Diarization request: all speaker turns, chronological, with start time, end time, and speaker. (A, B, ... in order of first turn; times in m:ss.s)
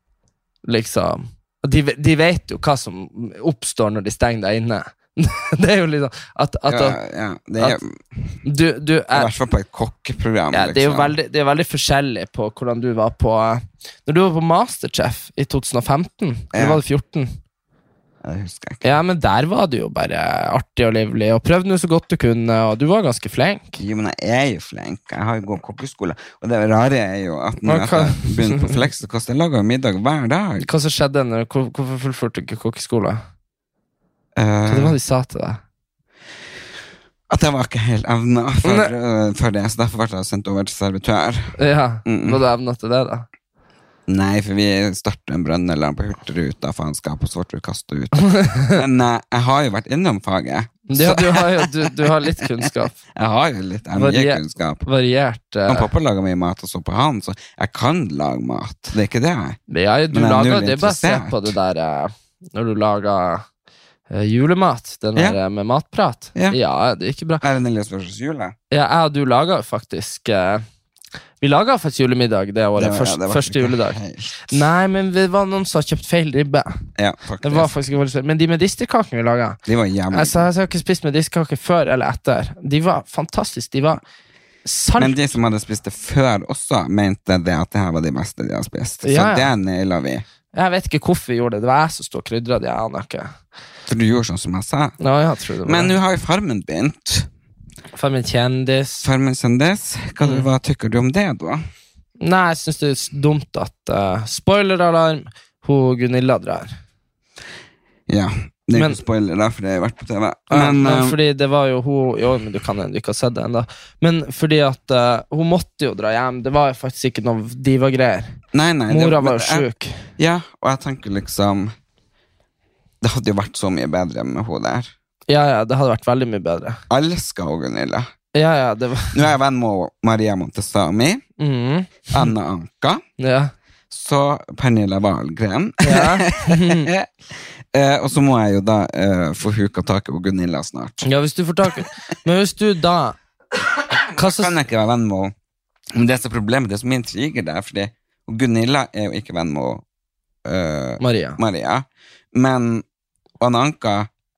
0:00.7-0:07.0 A
0:06.7-0:08.4 B
0:08.4-0:09.3 A
0:09.1-0:11.2 B
0:10.5-0:17.3 A
0:16.5-0:16.8 B
0:18.2-0:19.0 B
0:18.8-0:23.8 A
0:23.8-0:30.7 B
0:27.6-0:28.8 A
0:30.6-0:33.2 A
0:34.4-0:35.0 B
0:34.7-0:35.6 A
0:37.3-0:42.4 B
0:38.6-0:38.9 A
0:41.6-0:43.3 A
0:44.1-0:52.5 B
0:48.3-0:48.8 A
0:50.9-0:53.0 A
0:53.2-0:54.9 B
0:54.0-0:55.9 A
0:55.7-0:59.6 B
0:59.7-1:03.4 A
1:00.1-1:01.6 B
1:04.1-1:07.4 A
1:07.4-1:08.6 B
1:08.7-1:10.6 A
1:11.4-1:16.7 A
1:12.8-1:14.6 B
1:17.0-1:17.7 B
1:17.4-1:19.6 A
1:19.7-1:20.4 B
1:20.1-1:24.0 A
1:24.6-1:25.2 A
1:25.0-1:30.2 B
1:29.0-1:29.5 A
1:30.5-1:33.3 A
1:33.9-1:35.0 B
1:35.0-1:35.9 A
1:35.6-1:37.3 B
1:37.9-1:39.1 A
1:39.0-1:41.6 B
1:40.2-1:40.5 A
1:42.2-1:46.8 A
1:48.1-1:51.2 B
1:48.7-1:49.0 A
1:50.5-1:58.4 A
1:58.5-1:59.7 B
1:58.9-2:00.0 A
2:00.2-2:01.7 B
2:03.0-2:04.9 B
2:05.3-2:06.8 A
2:06.9-2:08.1 B
2:08.4-2:09.2 A
2:09.1-2:11.2 B
2:11.4-2:12.3 A
2:12.1-2:13.0 B
2:13.2-2:13.5 A
2:13.9-2:17.1 B
2:15.8-2:16.9 A
2:17.7-2:21.1 B
2:21.0-2:23.2 A
2:24.1-2:25.3 B
2:24.2-2:24.5 A
2:25.9-2:29.8 B
2:30.5-2:32.8 B
2:31.0-2:31.4 A
2:33.4-2:34.1 B